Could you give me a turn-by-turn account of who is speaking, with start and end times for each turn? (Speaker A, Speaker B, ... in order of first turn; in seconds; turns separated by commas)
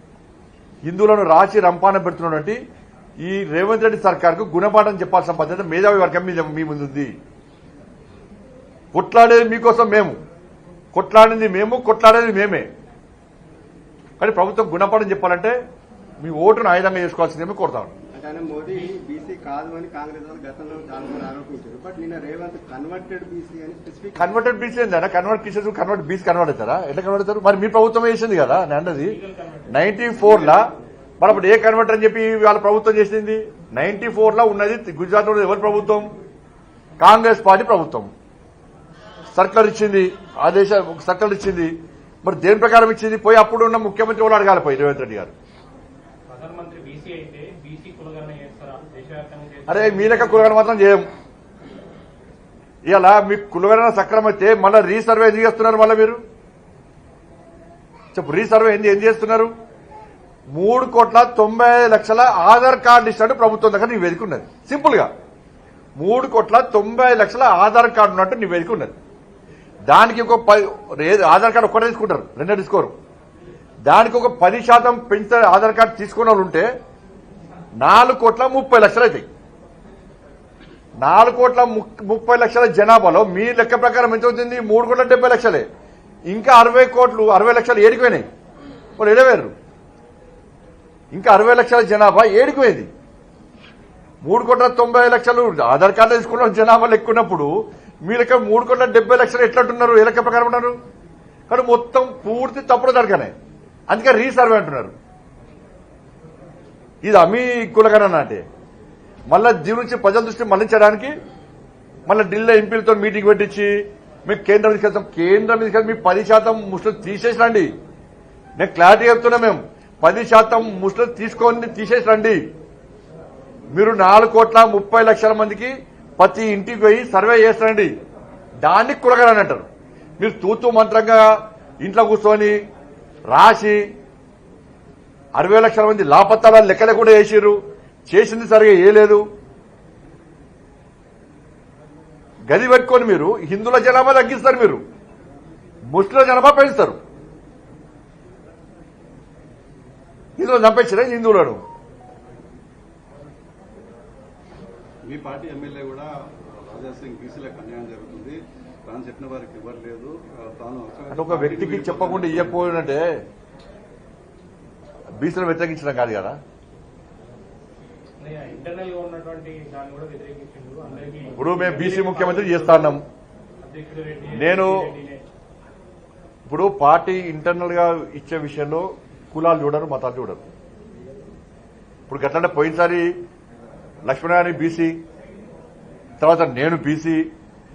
Speaker A: 0.8-2.6, Speaker A: 3.2-7.1, Speaker A: 8.9-10.2, Speaker A: 10.9-12.7, Speaker A: 14.2-15.5, Speaker A: 16.2-17.9, Speaker B: 18.1-24.4, Speaker A: 24.1-29.2, Speaker C: 28.9-29.9, Speaker A: 29.7-30.7, Speaker A: 31.2-36.1, Speaker A: 37.0-38.1, Speaker A: 39.3-41.7, Speaker A: 42.2-45.3, Speaker C: 46.3-50.6, Speaker A: 49.7-51.0, Speaker A: 52.9-56.2, Speaker A: 58.1-59.5, Speaker A: 60.5-65.1, Speaker A: 66.0-69.0, Speaker A: 69.9-72.9, Speaker A: 73.8-76.7, Speaker A: 77.8-79.2, Speaker A: 81.0-85.7, Speaker A: 86.3-88.2, Speaker A: 89.0-89.5, Speaker A: 91.1-92.9, Speaker A: 94.2-97.5, Speaker A: 98.0-100.8, Speaker A: 101.5-103.3, Speaker A: 103.9-104.9, Speaker A: 107.0-108.4, Speaker A: 109.3-111.2, Speaker A: 112.1-113.7, Speaker A: 114.2-117.7, Speaker A: 118.6-122.4, Speaker A: 123.7-127.9, Speaker A: 128.6-129.7, Speaker A: 130.2-131.3, Speaker A: 131.8-132.6, Speaker A: 133.3-133.8, Speaker A: 135.3-137.6, Speaker A: 138.1-139.2, Speaker A: 142.5-144.8, Speaker A: 145.9-147.0, Speaker A: 150.4-151.6, Speaker D: 155.1-162.7, Speaker A: 161.1-163.1, Speaker A: 165.2-166.4, Speaker C: 168.2-173.0, Speaker A: 171.4-173.0, Speaker C: 173.6-175.2, Speaker A: 174.3-174.7, Speaker A: 176.5-180.4, Speaker A: 182.1-183.1, Speaker A: 184.0-184.9, Speaker A: 186.2-187.2